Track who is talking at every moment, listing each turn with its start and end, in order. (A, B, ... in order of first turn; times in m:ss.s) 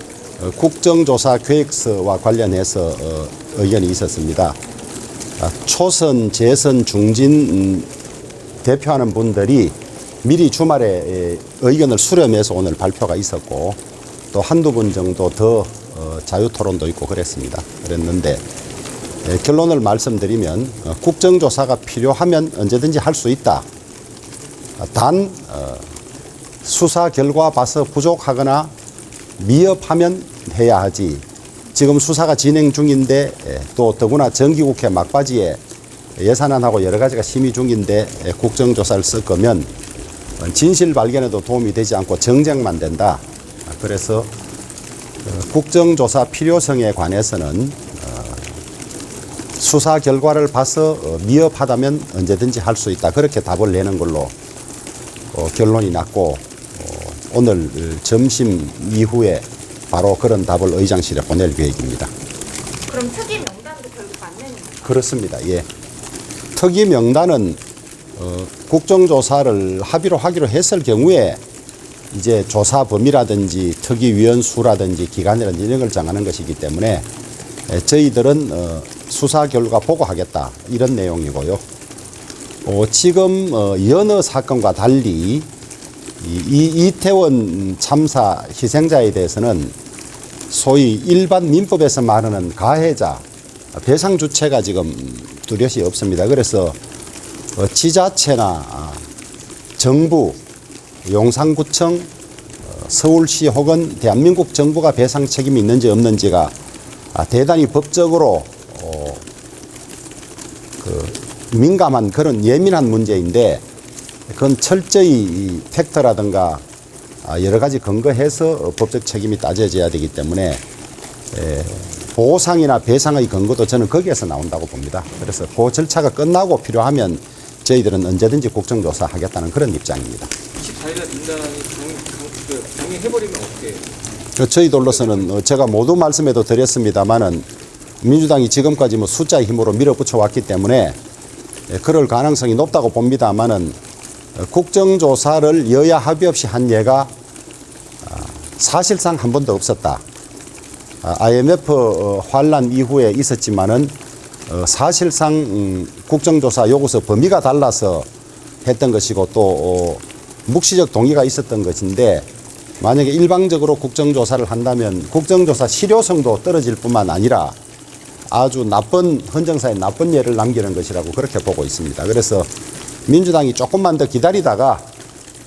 0:00.4-0:04.6 A
0:05.4-0:07.9 A
0:08.6-0:13.8 A
0:14.3-0:18.4 A
0:19.2-0:23.6 A
0:24.8-0:25.8 A
0:26.6-0:28.7 A
0:29.4-0:35.6 A
0:36.2-0:39.7 A
0:40.4-0:44.3 A
0:45.2-0:48.5 A
0:49.6-0:54.3 A
0:55.3-1:02.1 A
1:02.8-1:04.8 B
1:04.8-1:05.7 A
1:06.5-1:07.6 A
1:08.2-1:11.4 A
1:12.1-1:17.0 A
1:17.7-1:21.6 A
1:22.6-1:25.5 A
1:26.2-1:29.7 A
1:30.5-1:33.2 A
1:33.7-1:36.8 A
1:37.6-1:39.0 A
1:39.8-1:40.4 A
1:41.0-1:42.1 A
1:42.6-1:46.5 A
1:47.1-1:49.2 A
1:50.8-1:53.6 A
1:54.3-1:56.6 A
1:57.2-2:00.6 A
2:01.3-2:10.3 A
2:10.6-2:13.8 C
2:14.4-2:17.4 A
2:14.8-2:15.2 C
2:18.0-2:21.0 A
2:21.7-2:23.8 A
2:24.4-2:27.1 A
2:28.0-2:30.0 A
2:31.0-2:33.9 A
2:34.5-2:38.1 A
2:38.6-2:42.3 A
2:42.8-2:47.6 A
2:48.3-2:52.5 A
2:53.1-2:54.8 A